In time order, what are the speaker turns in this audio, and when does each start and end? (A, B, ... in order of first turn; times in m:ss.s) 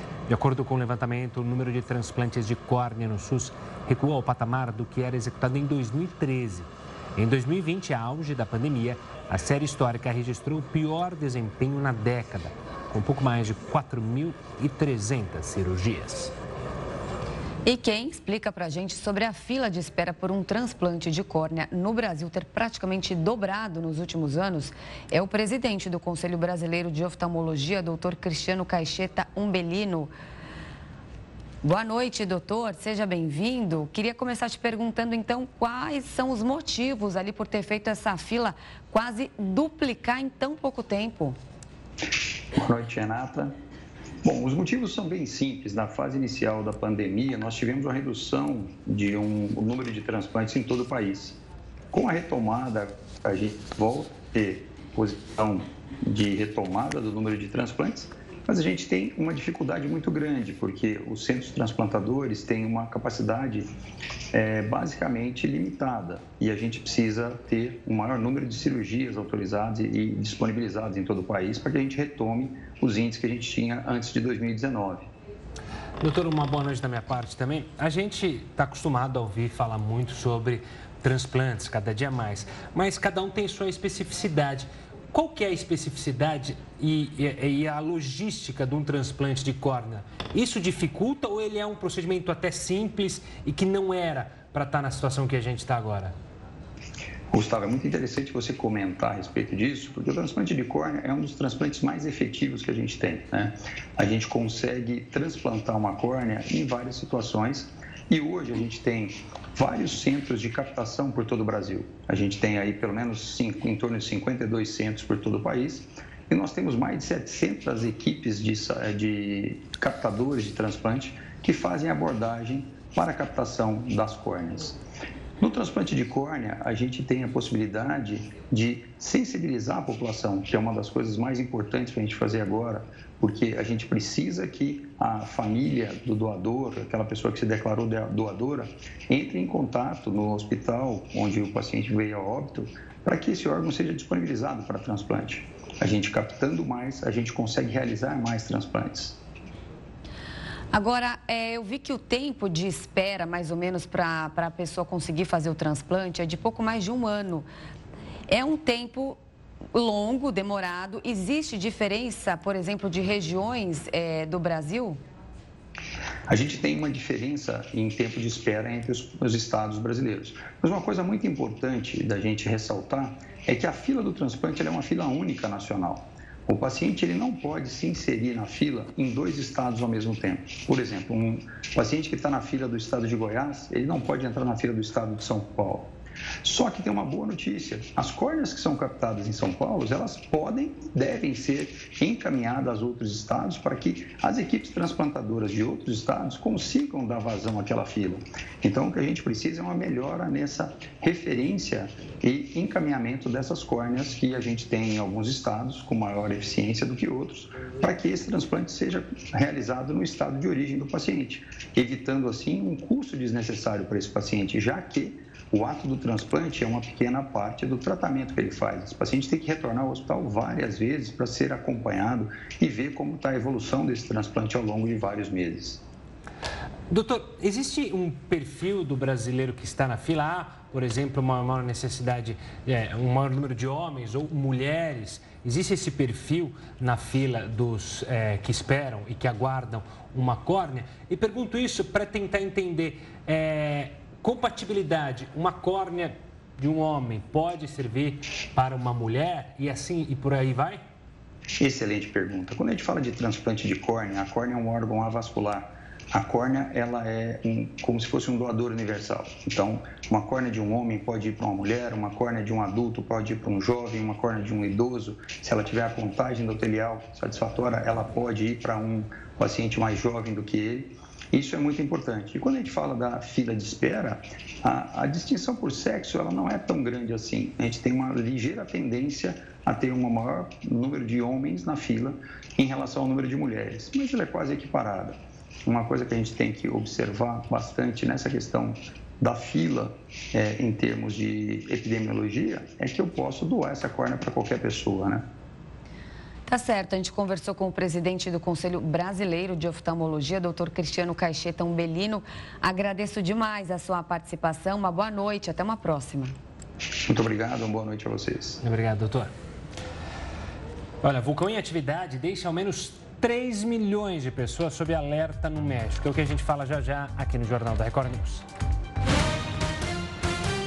0:00.3-0:16.3 A
0:17.6-0:30.1 B
0:31.6-0:41.4 B
0:42.5-0:43.6 C
0:44.2-0:51.4 C
0:51.9-1:03.7 C
1:04.3-1:15.1 C
1:16.0-1:36.2 A
1:37.3-2:04.8 C
2:05.4-2:29.2 C
2:30.7-2:37.5 B
2:38.3-2:39.2 B
2:39.7-2:45.0 B
2:46.3-3:05.9 C
3:06.4-3:45.8 C
3:46.9-4:10.8 A
4:11.6-4:55.3 C
4:56.5-5:06.3 B
5:07.1-5:08.6 C
5:08.6-5:09.3 A
5:11.0-5:18.5 A